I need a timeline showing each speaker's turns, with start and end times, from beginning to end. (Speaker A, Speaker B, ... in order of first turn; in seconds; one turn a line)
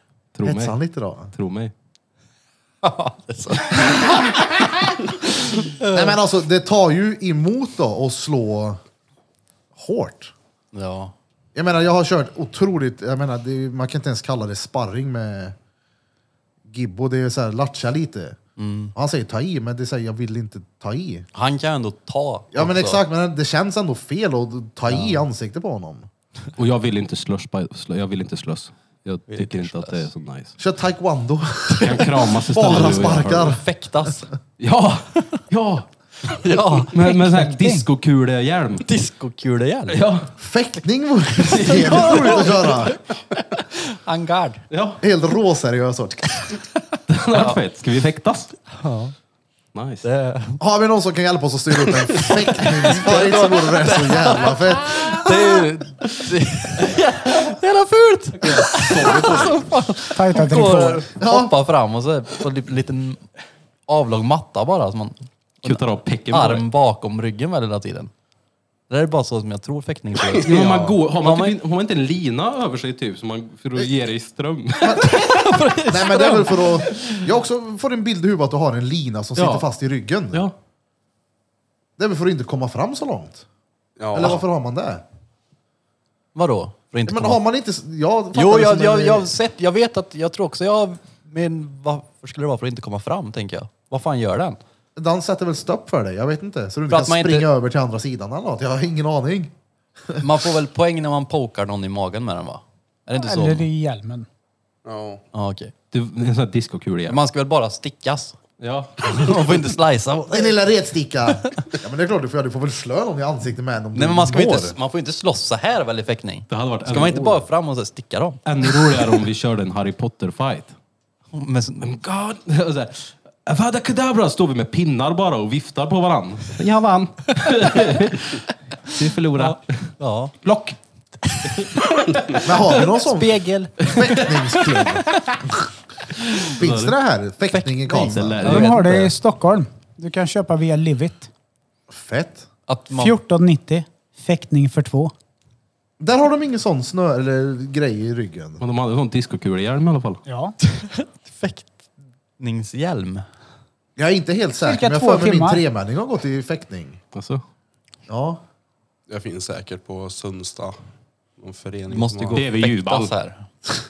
Speaker A: 0.3-0.8
Speaker B: 0.5-1.3
Speaker A: 1.3-1.7
Speaker C: 2.8-6.2
Speaker B: 5.9-8.8
Speaker B: 9.8-10.3
Speaker C: 10.7-11.1
Speaker B: 11.6-15.6
Speaker B: 16.7-18.4
Speaker C: 18.6-18.9
Speaker B: 18.9-21.3
Speaker C: 21.3-23.1
Speaker B: 22.5-26.1
Speaker C: 24.9-25.2
Speaker A: 26.6-30.6
Speaker C: 29.3-30.1
Speaker B: 30.6-34.1
Speaker C: 31.7-34.3
Speaker A: 31.8-33.6
Speaker A: 34.6-38.9
Speaker C: 36.2-37.2
Speaker D: 37.1-37.9
Speaker C: 38.8-40.0
Speaker A: 39.9-40.3
Speaker B: 40.4-43.0
Speaker A: 41.5-42.7
Speaker C: 41.5-43.0
Speaker C: 43.7-44.6
Speaker A: 44.7-45.0
Speaker B: 45.0-46.6
Speaker A: 47.1-48.6
Speaker C: 47.3-47.6
Speaker C: 48.7-49.1
Speaker A: 49.7-50.1
Speaker C: 50.0-50.6
Speaker B: 50.6-55.3
Speaker C: 52.0-63.3
Speaker A: 58.4-59.7
Speaker D: 60.1-61.1
Speaker B: 61.2-61.5
Speaker C: 63.9-68.1
Speaker A: 65.6-66.7
Speaker C: 68.9-71.6
Speaker E: 70.2-70.9
Speaker A: 70.4-75.2
Speaker B: 74.8-75.2
Speaker C: 74.9-77.3
Speaker B: 75.8-80.5
Speaker A: 79.4-79.7
Speaker B: 82.0-83.5
Speaker E: 84.0-84.4
Speaker B: 84.1-85.0
Speaker C: 86.3-87.4
Speaker B: 87.1-89.3
Speaker C: 88.3-94.6
Speaker B: 95.0-99.5
Speaker C: 96.9-97.5
Speaker C: 100.2-103.7
Speaker D: 103.1-104.3
Speaker E: 104.8-105.2
Speaker C: 105.3-105.7
Speaker A: 105.9-107.2
Speaker C: 107.1-108.4
Speaker A: 108.6-109.6
Speaker C: 109.0-110.6
Speaker B: 110.3-114.8
Speaker C: 111.3-111.6
Speaker C: 113.9-119.2
Speaker A: 116.5-117.4
Speaker A: 118.5-120.7
Speaker C: 121.3-121.9
Speaker A: 121.8-130.8
Speaker C: 127.5-128.0
Speaker C: 129.3-130.3
Speaker A: 131.4-131.7
Speaker C: 131.4-131.8
Speaker B: 132.4-135.7
Speaker C: 132.6-135.4
Speaker A: 136.4-136.9
Speaker B: 136.5-138.5
Speaker C: 137.5-139.1
Speaker A: 138.0-138.9
Speaker D: 138.4-141.3
Speaker B: 141.9-142.5
Speaker C: 142.7-143.2
Speaker D: 142.9-145.1
Speaker B: 146.0-148.6
Speaker A: 148.6-150.2
Speaker D: 150.3-150.6
Speaker C: 150.6-151.8
Speaker C: 152.4-153.2
Speaker B: 154.0-157.0
Speaker D: 154.6-155.6
Speaker A: 157.1-157.4
Speaker B: 158.1-158.4
Speaker E: 159.1-160.8
Speaker E: 161.4-162.4
Speaker C: 161.9-163.5
Speaker A: 162.3-163.1